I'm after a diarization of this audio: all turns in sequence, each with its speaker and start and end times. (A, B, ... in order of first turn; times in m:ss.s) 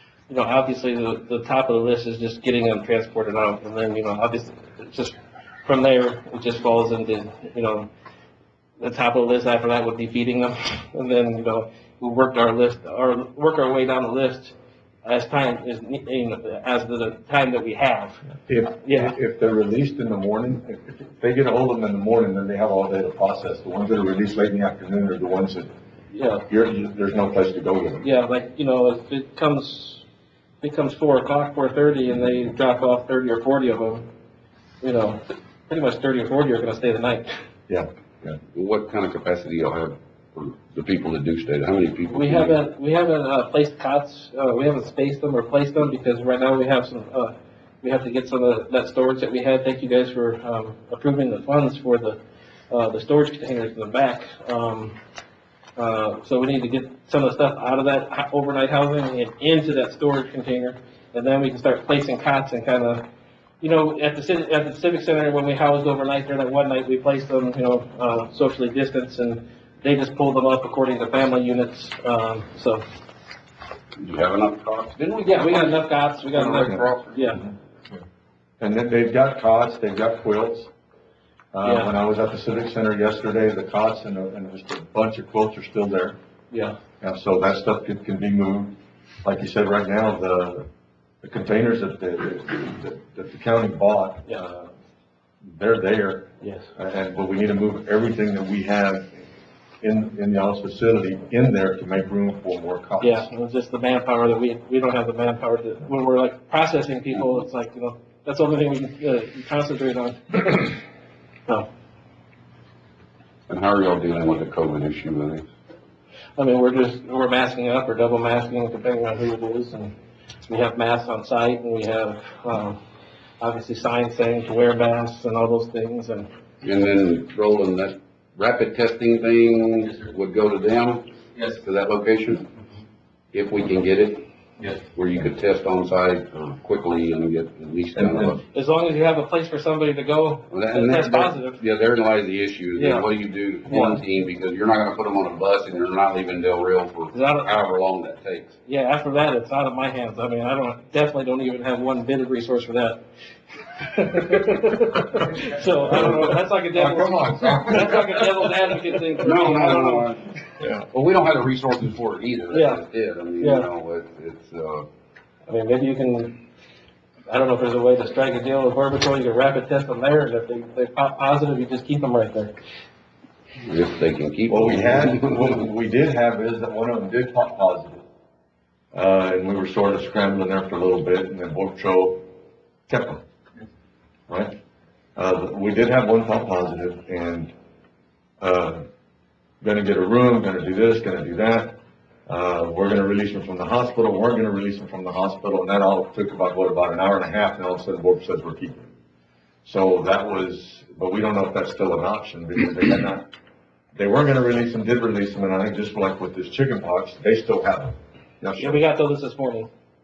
0:00.3-0:07.9 A
0:08.8-0:18.2 A
0:18.4-0:25.7 B
0:18.8-0:19.1 A
0:26.1-0:26.4 A
0:26.5-0:28.0 B
0:28.0-0:30.0 A
0:30.6-0:34.1 A
0:34.8-0:37.3 A
0:37.7-0:38.4 B
0:38.5-0:42.6 C
0:42.1-0:52.2 A
0:52.7-0:55.0 A
0:55.8-1:03.0 A
1:03.6-1:12.8 A
1:14.0-1:17.4 C
1:15.2-1:17.4 A
1:18.6-1:20.7 B
1:21.5-1:26.2 B
1:21.6-1:21.9 A
1:26.5-1:26.8 A
1:27.0-1:30.7 B
1:31.2-1:34.7 B
1:35.4-1:39.2 B
1:36.4-1:36.7 A
1:39.8-1:43.2 B
1:43.0-1:50.8 A
1:53.5-1:55.4 C
1:56.4-1:59.9 A
2:00.5-2:02.8 A
2:03.4-2:06.3 A
2:06.6-2:12.5 C
2:13.3-2:14.2 C
2:14.8-2:18.4 C
2:17.9-2:18.4 B
2:18.5-2:21.6 A
2:20.5-2:28.5 C
2:22.8-2:23.1 A
2:23.7-2:24.0 A
2:27.1-2:27.6 A
2:28.6-2:33.0 A
2:33.7-2:40.1 A
2:35.8-2:36.3 C
2:35.9-2:38.5 B
2:39.2-2:40.2 C
2:40.9-2:44.9 C
2:42.5-2:42.8 A
2:43.4-2:43.7 A
2:45.5-2:46.4 A
2:47.3-2:52.5 A
2:53.6-2:55.6 C
2:54.5-2:58.0 B
2:58.9-3:02.2 B
3:02.9-3:03.2 B
3:04.3-3:04.6 B
3:05.2-3:07.5 B
3:08.4-3:08.8 B
3:09.6-3:18.9 B
3:19.6-3:23.3 B
3:23.9-3:28.8 B
3:28.6-3:29.7 A